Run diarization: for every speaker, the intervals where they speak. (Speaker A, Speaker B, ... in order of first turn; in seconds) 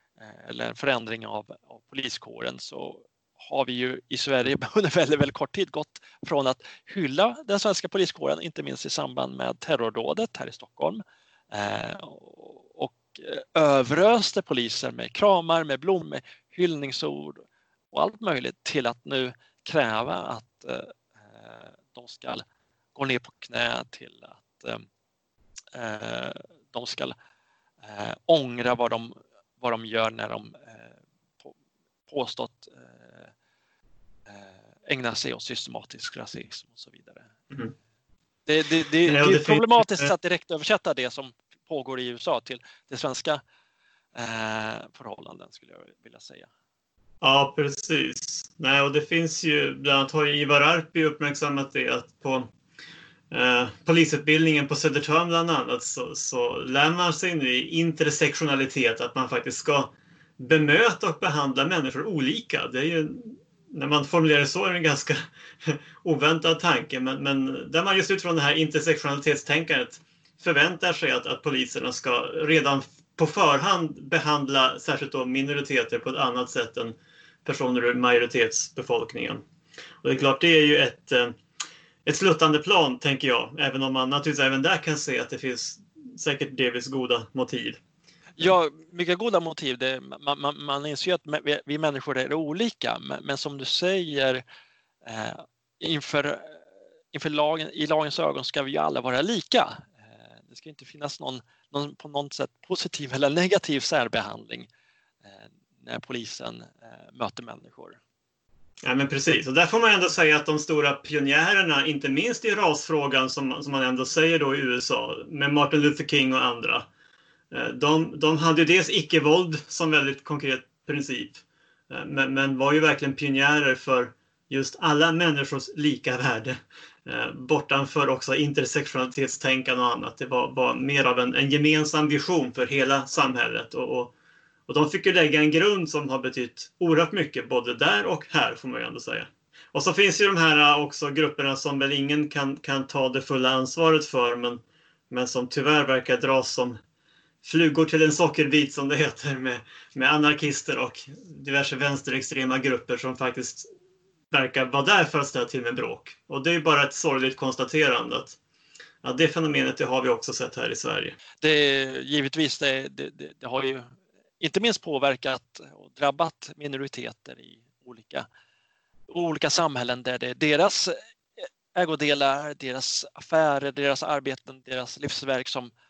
Speaker A: 0.2-22.4, 22.9-24.8, 25.7-27.1, 27.8-31.5, 32.1-33.3, 34.3-37.3, 38.5-43.4, 44.1-46.5, 88.4-94.4, 95.0-104.7, 105.2-108.0, 161.4-168.2, 169.1-175.7
Speaker B: 39.0-40.1, 47.2-52.5, 53.3-79.4, 80.0-81.4, 82.0-87.8, 108.8-116.9, 117.5-134.1, 134.7-146.8, 147.4-153.7, 154.3-158.4, 159.0-161.2